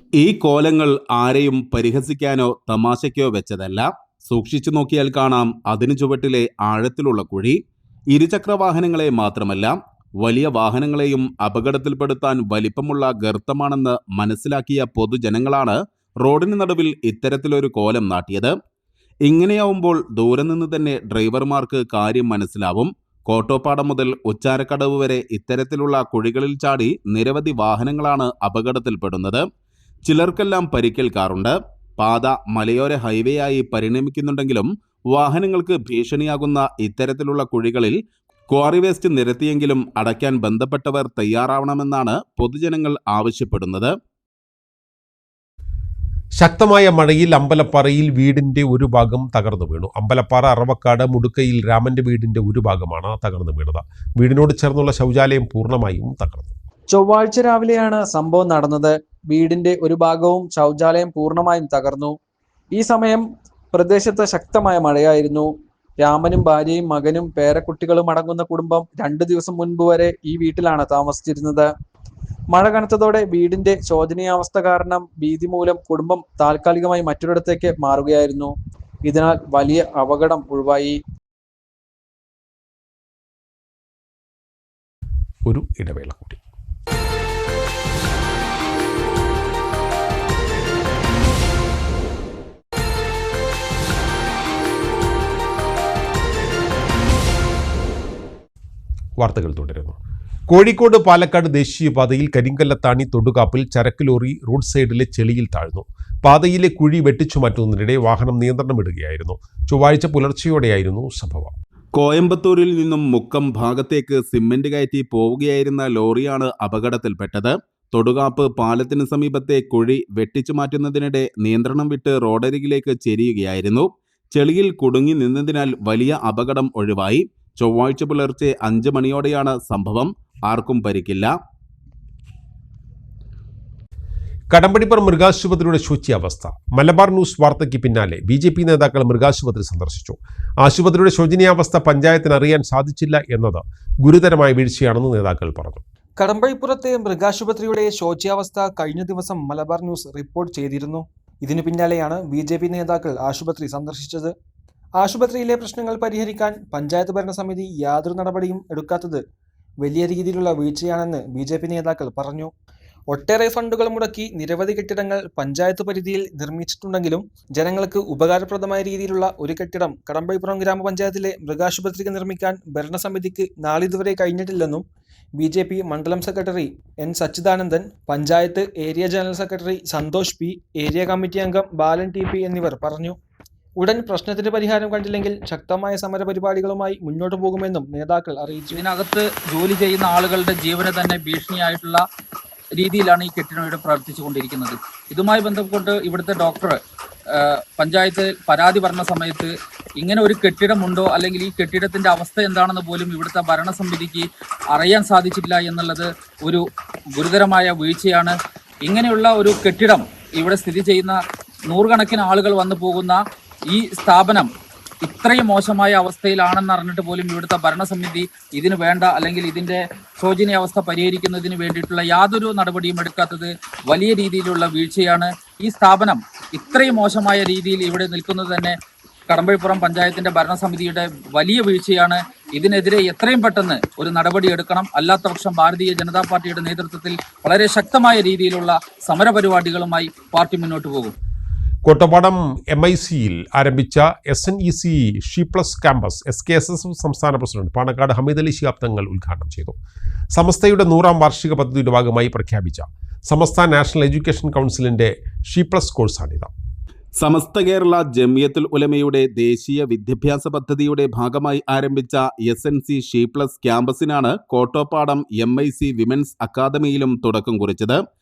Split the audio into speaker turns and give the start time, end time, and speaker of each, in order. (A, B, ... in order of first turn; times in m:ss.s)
0:00.2-0:07.6 A
0:08.1-0:18.5 A
0:19.2-0:29.4 A
0:30.0-0:38.0 A
0:38.5-0:43.9 A
0:46.4-0:56.5 B
0:56.9-1:02.1 C
1:02.7-1:11.7 C
1:12.5-1:18.5 C
1:19.0-1:21.0 C
1:25.4-1:26.4 B
1:39.2-1:40.0 B
1:40.5-1:51.6 B
1:51.9-2:11.3 A
2:14.5-2:25.8 B
2:26.2-2:34.3 D
2:35.0-2:39.2 D
2:39.8-2:42.5 D
2:43.1-2:54.8 D
2:55.4-3:03.2 D
3:03.8-3:08.8 D
3:08.7-3:12.0 E
3:12.8-3:16.8 E
3:17.3-3:31.2 E
3:31.7-3:33.2 E
3:33.7-3:34.5 E
3:35.0-3:48.8 E
3:49.3-4:01.2 E
4:01.8-4:09.8 B
4:10.3-4:16.5 B
4:17.2-4:28.0 A